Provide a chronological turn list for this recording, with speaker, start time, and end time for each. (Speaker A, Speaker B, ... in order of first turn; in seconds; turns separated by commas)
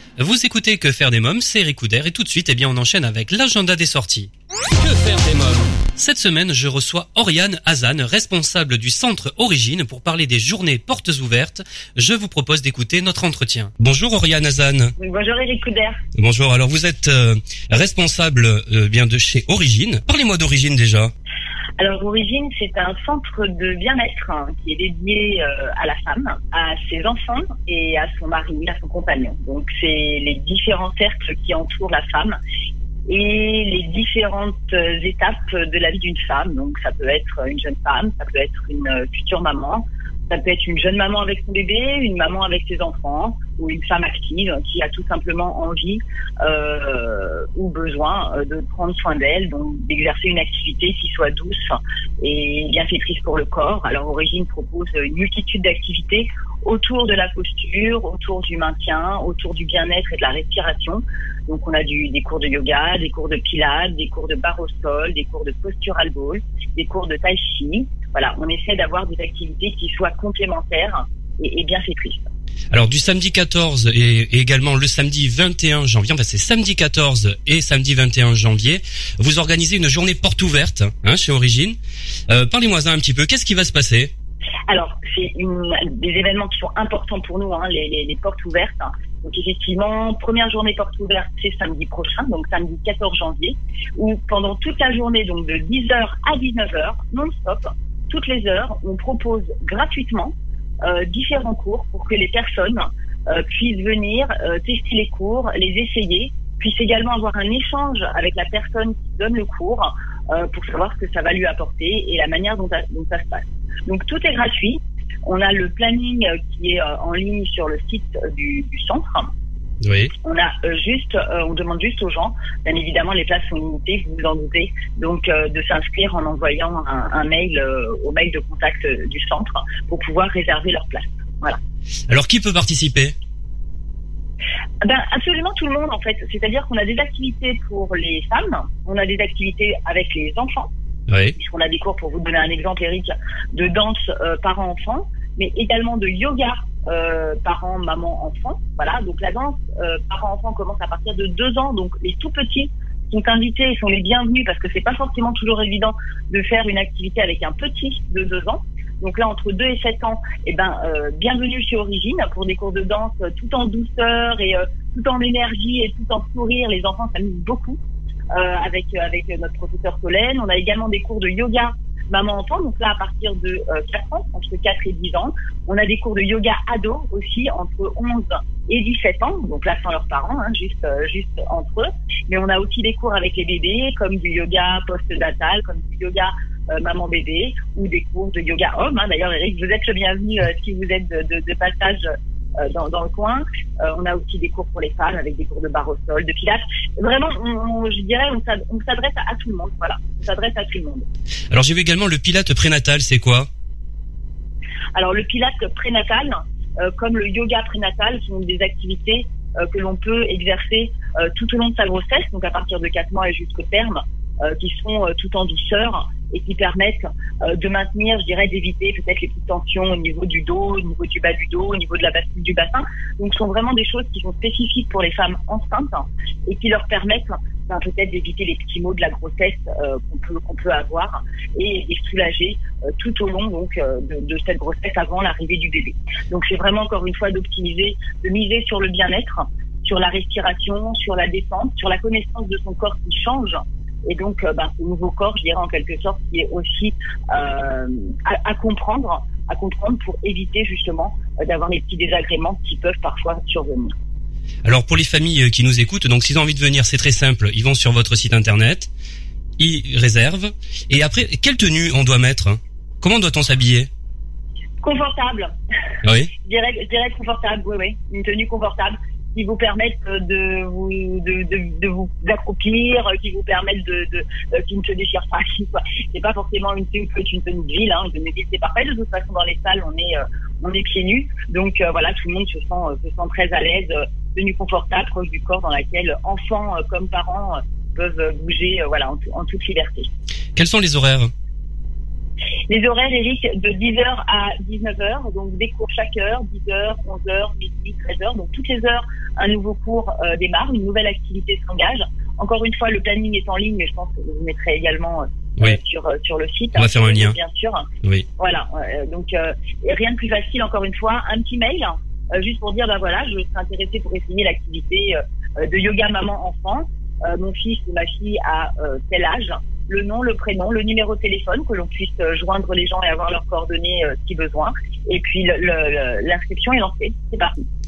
Speaker A: 0.2-14.9, Speaker B: 15.0-16.0, Speaker A: 16.2-21.1, Speaker B: 21.8-32.4, Speaker B: 33.1-72.3, Speaker A: 72.7-81.8, Speaker A: 82.3-84.1, Speaker B: 84.7-119.3, Speaker A: 119.8-120.1, Speaker B: 120.2-131.6, Speaker A: 132.1-133.2, Speaker B: 134.8-140.7, Speaker A: 141.1-141.3, Speaker B: 141.4-167.8, Speaker B: 168.3-192.1, Speaker B: 192.6-201.1, Speaker A: 201.5-203.5, Speaker B: 204.9-253.9, Speaker A: 254.7-258.9, Speaker A: 259.6-263.9, Speaker B: 264.8-265.5, Speaker A: 266.0-266.3, Speaker B: 266.4-290.1, Speaker A: 290.6-291.3, Speaker B: 292.7-307.9, Speaker A: 306.8-307.4, Speaker B: 308.4-327.6